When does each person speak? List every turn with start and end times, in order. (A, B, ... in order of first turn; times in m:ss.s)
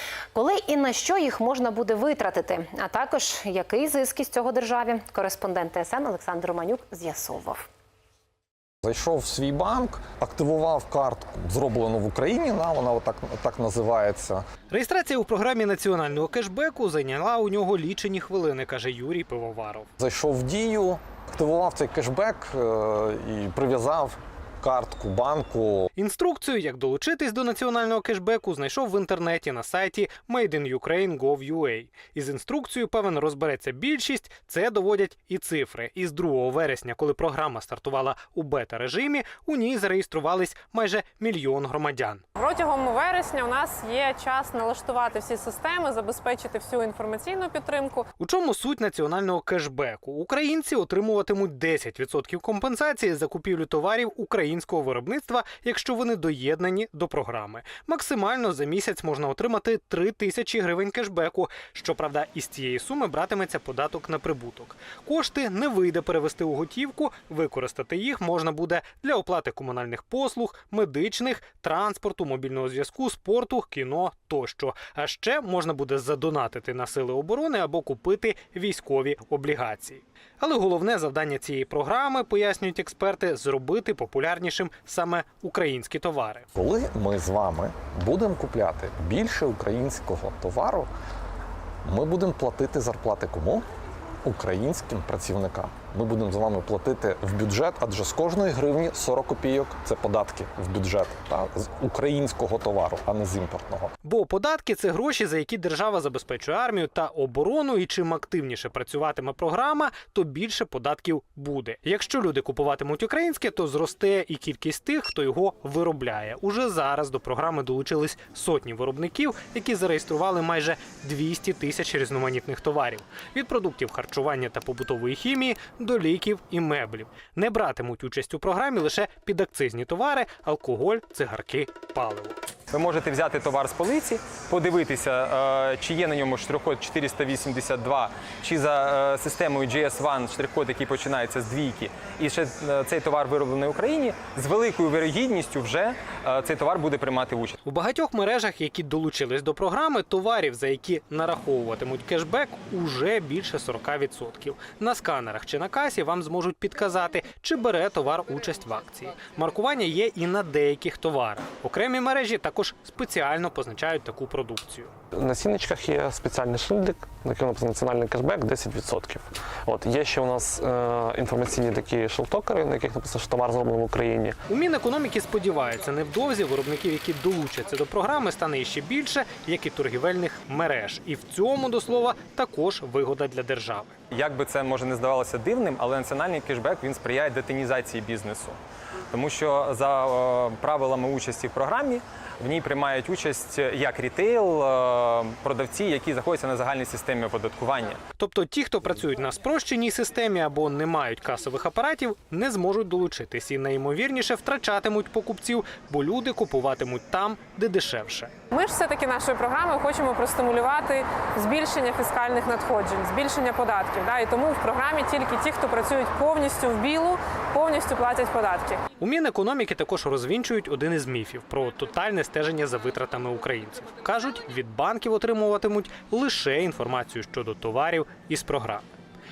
0:00.3-0:07.6 A
0:08.8-0:14.4 B
0:14.7-0:19.9 C
0:20.0-0:25.9 B
0:26.0-0:42.2 C
0:42.4-0:48.1 D
0:48.2-1:26.5 C
1:26.6-1:30.9 B
1:31.8-1:33.6 B
1:34.2-1:43.9 B
1:44.0-2:12.4 C
2:12.7-2:27.6 E
2:27.6-2:44.9 C
2:45.1-2:54.4 F
2:54.5-3:03.9 C
3:04.1-3:08.6 E
3:09.1-3:18.0 E
3:18.2-3:28.3 C
3:28.5-3:38.8 D
3:39.0-3:48.9 C